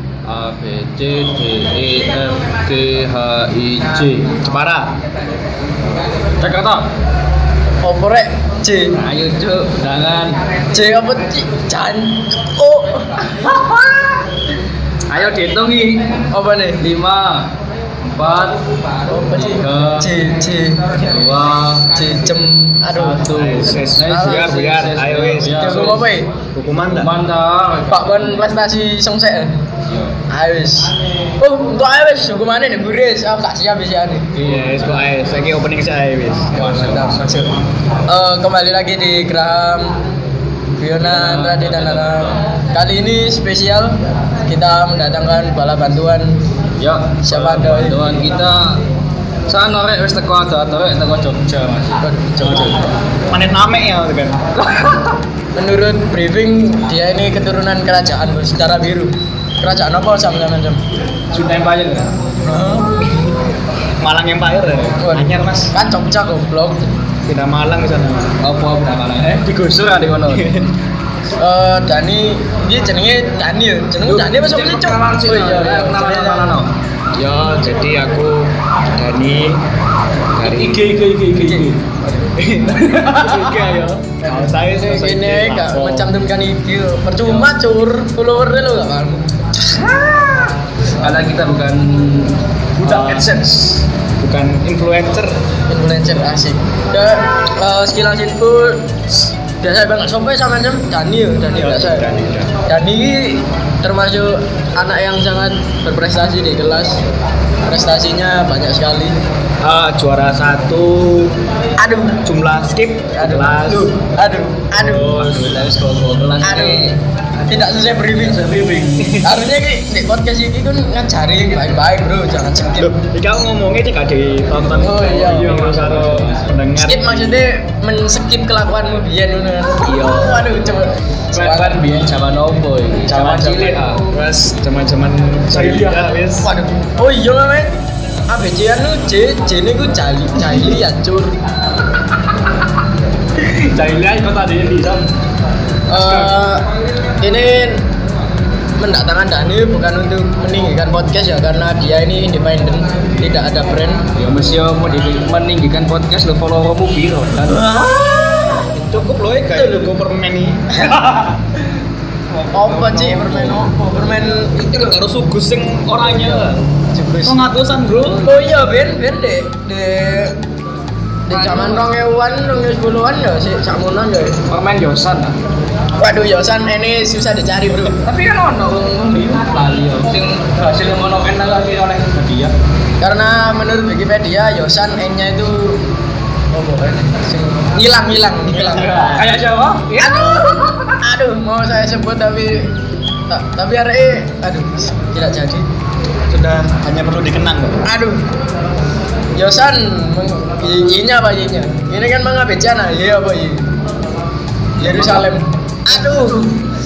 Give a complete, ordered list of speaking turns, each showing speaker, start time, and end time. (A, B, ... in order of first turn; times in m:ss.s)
0:00.2-0:04.4 A
0:04.4-0:04.9 B
0:06.4-0:06.8 A
0:07.8-0:08.9 C
0:08.9-0:10.4 A
0:10.7-0:13.1 C
0:13.4-0:13.9 A
0:15.1-0:16.0 A
0:16.3-0:16.8 C
0:16.8-0:17.5 A
0:18.1-0:18.6 A
0:19.1-0:20.9 C
0:19.3-0:20.1 A
0:20.9-0:21.9 A
0:21.9-0:23.2 C
0:22.9-0:26.2 A
0:23.3-0:25.9 B
0:24.0-0:24.4 C
0:25.5-0:26.3 C
0:26.5-0:27.1 B
0:26.9-0:28.5 A
0:27.9-0:29.5 C
0:29.9-0:30.1 A
0:30.3-0:34.3 C
0:34.3-0:34.8 A
0:34.4-0:36.6 B
0:36.5-0:37.5 A
0:36.6-0:37.5 C
0:38.1-0:40.0 C
0:40.8-0:46.4 C
0:41.0-0:42.4 A
0:46.8-0:48.8 A
0:47.2-0:48.1 C
0:49.5-0:52.8 A
0:52.0-0:52.9 C
0:53.3-0:54.4 B
0:54.6-0:55.2 A
0:55.6-1:00.8 C
1:01.3-1:02.1 A
1:02.4-1:03.2 C
1:04.0-1:05.7 B
1:05.0-1:06.8 C
1:07.2-1:08.4 B
1:08.4-1:10.7 A
1:11.4-1:15.9 C
1:14.0-1:16.7 A
1:15.2-1:16.5 B
1:17.2-1:19.6 B
1:20.4-1:20.8 B
1:20.4-1:21.8 A
1:21.3-1:21.6 C
1:22.2-1:26.1 B
1:22.7-1:23.8 A
1:24.2-1:29.7 C
1:29.7-1:33.4 A
1:32.8-1:35.4 B
1:35.7-1:42.0 C
1:41.5-1:42.5 B
1:42.6-1:47.0 C
1:47.6-1:49.2 C
1:49.6-1:51.4 B
1:51.8-1:52.2 C
1:52.2-1:53.9 B
1:53.2-1:55.2 C
1:54.7-1:55.6 B
1:54.9-1:57.0 A
1:56.4-1:57.0 C
1:57.5-1:58.4 C
1:58.1-1:59.3 A
1:59.2-2:02.9 C
2:02.8-2:07.4 B
2:04.8-2:06.5 A
2:04.8-2:05.6 C
2:06.8-2:11.8 C
2:09.8-2:10.4 B
2:11.3-2:14.0 A
2:13.1-2:16.5 B
2:15.5-2:16.2 A
2:16.4-2:17.8 C
2:18.3-2:21.4 C
2:23.4-2:25.1 A
2:25.9-2:26.6 C
2:25.9-2:26.4 A
2:27.2-2:27.8 C
2:28.8-2:34.0 C
2:34.1-2:37.8 A
2:37.5-2:38.7 C
2:38.7-2:41.1 B
2:39.5-2:39.9 C
2:42.3-2:43.7 A
2:42.5-2:45.0 C
2:44.7-2:46.6 B
2:46.1-2:46.4 C
2:46.9-2:47.4 C
2:47.2-2:48.2 B
2:48.2-2:50.4 C
2:51.3-2:54.4 C
2:51.3-2:51.9 A
2:54.5-2:55.3 A
2:56.0-2:58.0 C
2:58.0-3:02.5 A
3:03.0-3:05.8 C
3:06.5-3:09.1 C
3:08.5-3:09.3 B
3:08.8-3:11.0 A
3:10.0-3:12.7 C
3:13.3-3:15.6 C
3:16.3-3:17.8 B
3:17.8-3:18.2 C
3:19.4-3:23.7 C
3:24.8-3:25.3 A
3:24.8-3:26.5 C
3:26.0-3:26.4 A